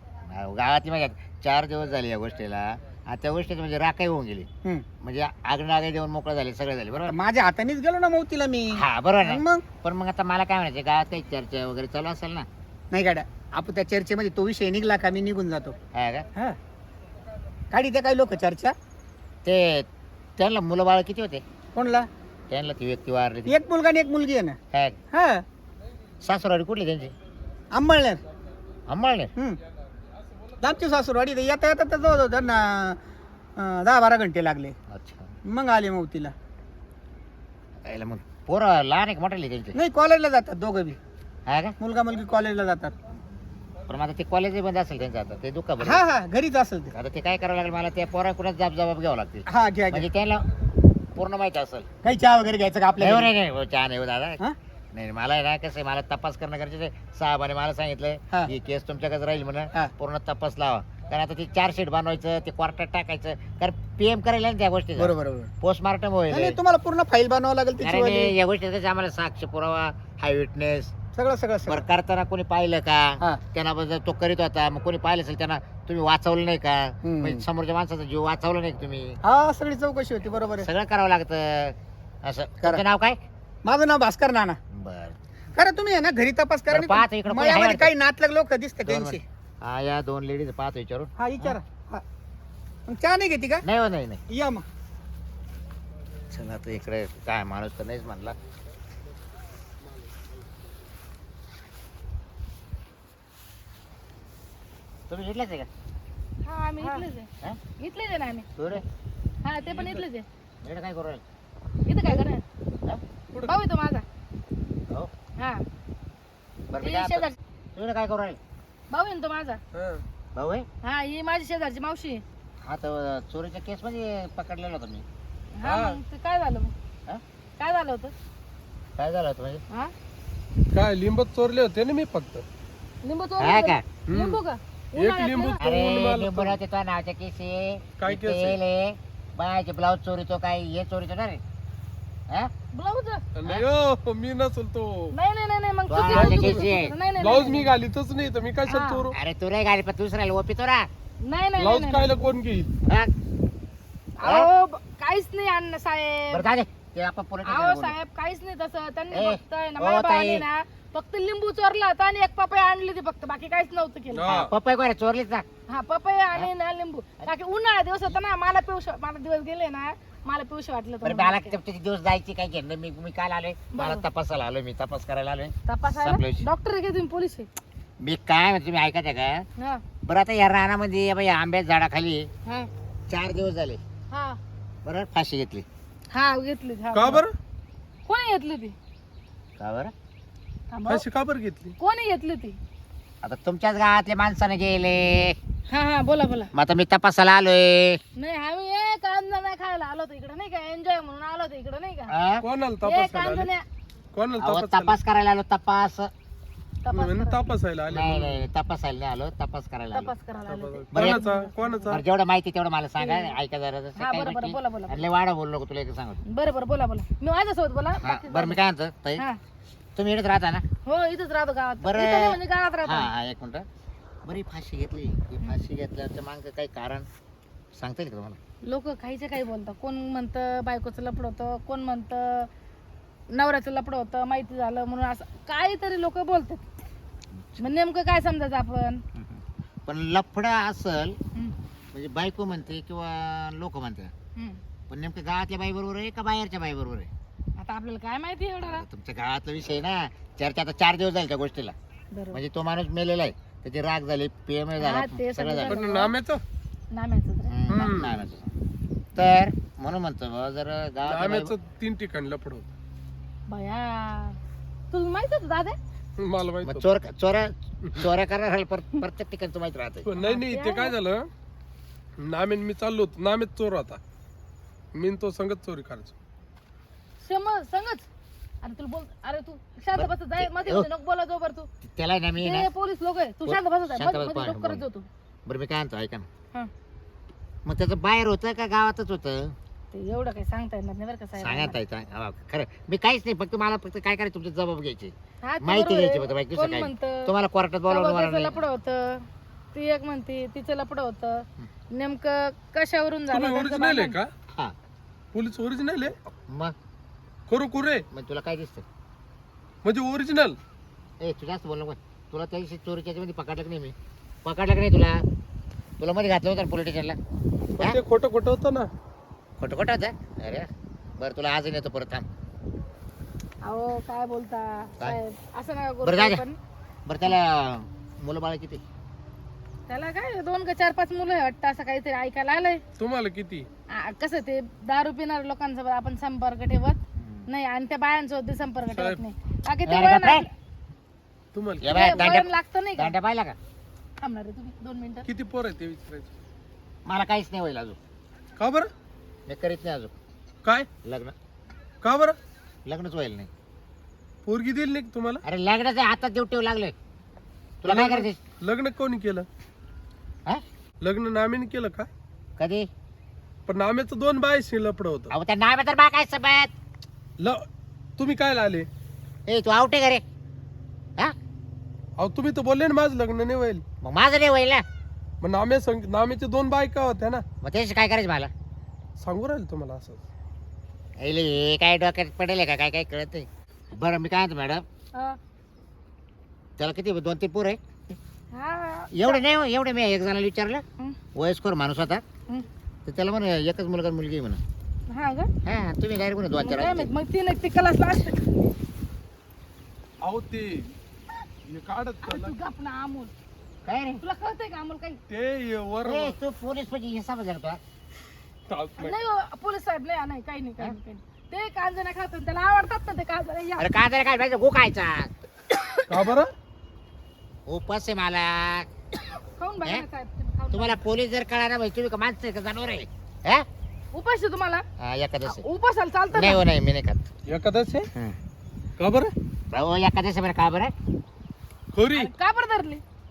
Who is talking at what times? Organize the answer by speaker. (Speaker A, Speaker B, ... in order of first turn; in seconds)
Speaker A: 0.2-4.5, 5.0-7.2, 8.7-12.5, 15.9-16.3, 19.4-21.4, 22.5-23.6, 24.7-25.0, 26.2-27.2, 28.9-29.3, 34.9-35.3, 37.9-39.8, 41.5-41.8, 43.9-46.0, 46.9-50.5, 51.1-51.9, 53.0-54.4, 54.9-66.6, 67.8-70.9, 71.7-79.2, 80.6-83.2, 84.7-85.2, 86.7-87.9, 88.8-91.6, 93.6-94.2, 96.3-98.4, 105.1-105.7, 108.6-108.8, 110.6-111.2, 116.7-118.4, 120.3-120.7, 122.6-125.0, 129.0-129.6, 133.4-133.9, 135.6-141.4, 145.9-146.9, 149.1-150.9, 152.9-153.1, 154.2-154.5, 156.3-158.0, 159.1-160.4, 164.3-165.5, 171.0-176.5, 178.0-179.5, 180.0-182.3, 183.1-183.8, 184.8-185.7, 189.6-189.9, 193.2-195.4, 196.5-198.0, 202.1-202.4, 204.4-206.1, 207.9-210.1, 210.9-211.2, 211.9-216.2, 218.0-219.2, 220.0-220.7, 221.8-223.7, 224.2-227.1, 227.7-228.4, 237.3-237.7, 239.2-241.2, 241.9-244.1, 244.9-247.1, 248.6-251.8, 252.3-255.8, 257.5-258.5, 259.1-261.5, 266.6-270.1, 279.9-280.9, 281.9-282.7, 283.4-284.8, 285.5-286.3, 287.6-289.6, 291.4-298.6, 306.5-306.8, 308.1-308.9, 311.2-315.2, 316.0-317.2, 319.6-322.3, 326.0-326.4, 327.1-328.8, 337.2-337.5, 339.9-340.5, 341.8-343.6, 347.1-348.0, 349.5-350.1, 351.0-351.3, 352.9-353.5, 355.4-356.9, 357.8-358.4, 362.6-362.9, 365.3-366.7, 369.5-370.2, 374.0-374.8, 377.6-378.5, 381.2-384.9, 386.8-388.2, 389.1-390.8, 391.4-392.2, 393.1-394.6, 395.6-397.1, 403.9-404.2, 406.1-407.8, 413.8-415.3, 417.7-418.9, 420.7-423.7, 425.0-425.6, 426.3-427.3, 429.7-430.9
Speaker B: 7.1-9.6, 12.9-15.8, 17.7-18.8, 21.8-22.1, 23.5-24.6, 25.1-25.4, 27.7-28.2, 30.6-33.0, 33.6-34.8, 35.5-36.3, 39.7-41.0, 41.8-43.0, 45.8-46.9, 49.5-50.1, 52.0-53.3, 65.0-65.5, 66.3-68.3, 71.2-71.8, 77.0-77.5, 79.2-80.7, 83.6-84.6, 85.5-89.2, 91.2-92.0, 92.9-93.7, 94.3-94.7
Speaker C: 106.5-107.3, 107.8-108.5, 109.4-110.3, 111.9-112.4, 113.5-114.0, 115.4-115.6, 116.8-117.3, 118.9-119.6, 120.8-122.2, 125.6-126.7, 127.6-128.1, 133.0-135.6, 142.7-143.3, 145.1-147.7, 148.7-149.1, 151.2-152.1, 154.2-156.4, 157.4-164.3, 165.7-171.6, 173.7-174.1, 175.7-177.5, 184.1-184.4, 186.1-187.2, 188.1-188.8, 190.7-191.0, 191.8-192.6, 195.7-196.5, 198.2-202.1, 202.8-203.7, 206.8-207.4, 209.9-211.8, 213.0-213.3, 214.0-215.1, 216.3-218.6, 220.9-223.1, 228.7-232.5, 233.3-236.6, 237.6-239.0, 247.6-248.9, 252.1-252.4, 254.8-256.1, 256.9-257.6, 263.5-264.4, 264.9-265.8, 270.2-270.9, 277.2-278.1, 278.6-281.7, 282.4-285.1, 289.9-291.8, 295.4-297.3, 297.9-304.2, 323.6-326.6, 329.9-332.8, 333.9-340.5, 341.9-343.1, 344.2-345.3, 388.5-389.4, 395.1-395.5, 396.6-398.5, 402.2-403.3, 404.2-405.2, 409.0-413.9, 419.6-421.0, 424.1-424.9, 425.5-426.6, 432.1-433.0
Speaker D: 109.7-110.0, 119.7-120.0, 125.6-126.0, 130.7-132.4, 134.1-134.4, 135.0-136.6, 138.0-138.6, 143.3-145.2, 146.1-146.7, 147.2-149.2, 151.6-152.7, 164.1-164.5, 186.9-187.3, 190.9-191.8, 202.4-203.5, 204.1-205.0, 206.9-208.5, 210.5-212.0, 255.6-256.4, 257.7-258.2, 261.1-262.7, 266.2-266.9, 270.0-271.3, 272.2-274.0, 274.9-276.1, 303.3-304.3, 305.3-306.2, 307.5-308.1, 309.8-310.6, 317.8-318.9, 333.0-333.7, 338.9-339.2, 341.5-342.3, 345.3-346.3, 348.6-348.9, 352.0-352.4, 354.4-355.4, 357.9-359.5, 361.0-362.1, 363.7-365.3, 367.4-367.6, 368.2-368.9, 372.2-373.8, 375.4-377.4, 379.2-380.2, 400.2-400.9, 401.7-402.5, 405.3-406.4, 408.7-409.2, 416.1-416.5, 427.5-428.1, 429.0-429.3, 431.9-432.3